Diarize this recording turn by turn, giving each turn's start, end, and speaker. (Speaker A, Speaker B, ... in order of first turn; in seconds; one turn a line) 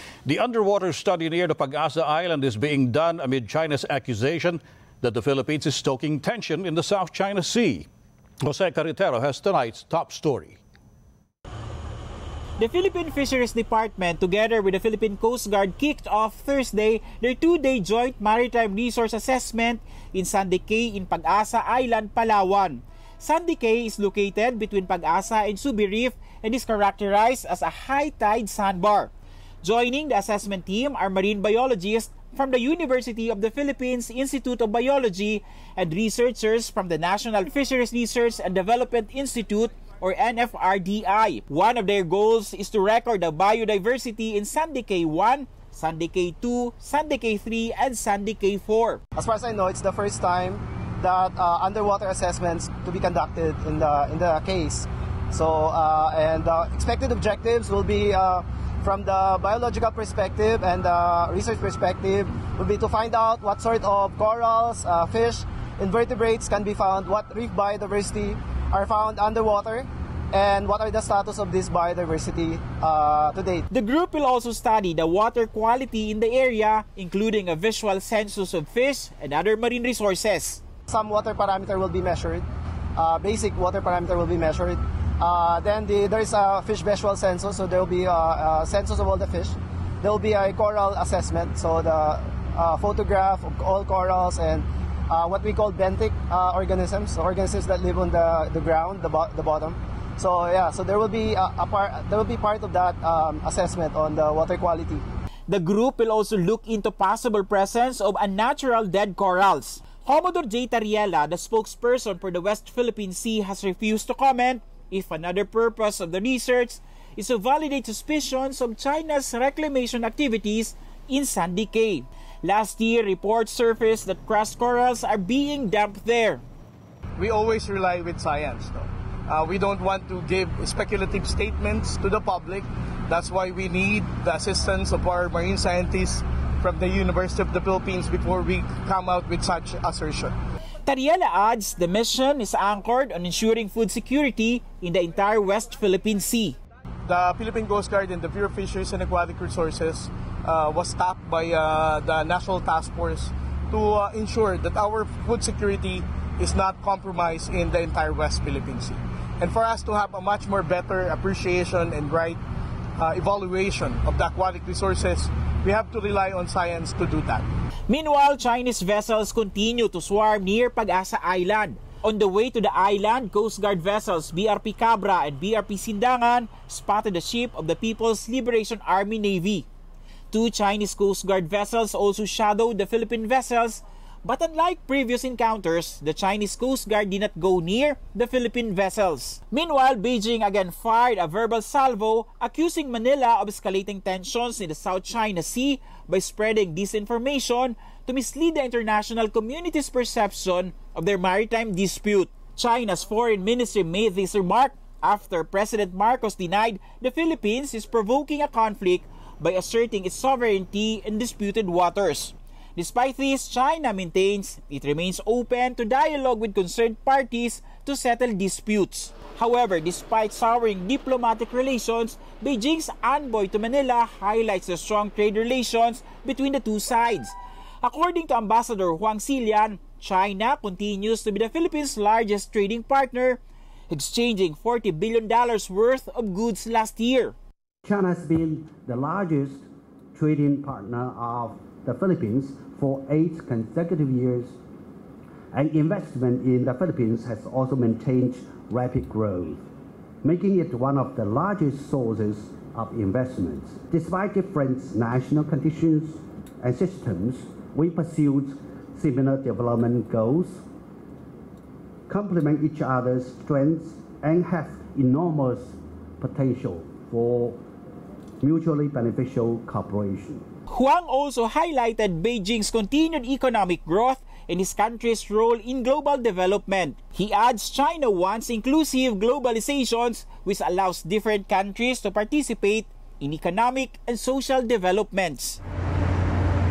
Speaker A: 0.2-7.9
Speaker A: 8.4-10.6
Speaker B: 12.6-29.1
Speaker B: 29.6-49.0
Speaker C: 49.2-73.7
Speaker B: 73.7-80.6
Speaker C: 80.9-82.4
Speaker C: 83.0-105.0
Speaker B: 105.5-126.4
Speaker D: 127.2-140.3
Speaker B: 140.8-146.6
Speaker D: 147.1-162.4
Speaker D: 163.0-167.5
Speaker B: 167.9-179.7
Speaker B: 180.3-237.3
Speaker E: 237.8-244.6
Speaker E: 245.5-249.7
Speaker E: 250.2-260.6
Speaker E: 262.1-267.6
Speaker E: 268.4-270.5
Speaker B: 270.7-285.6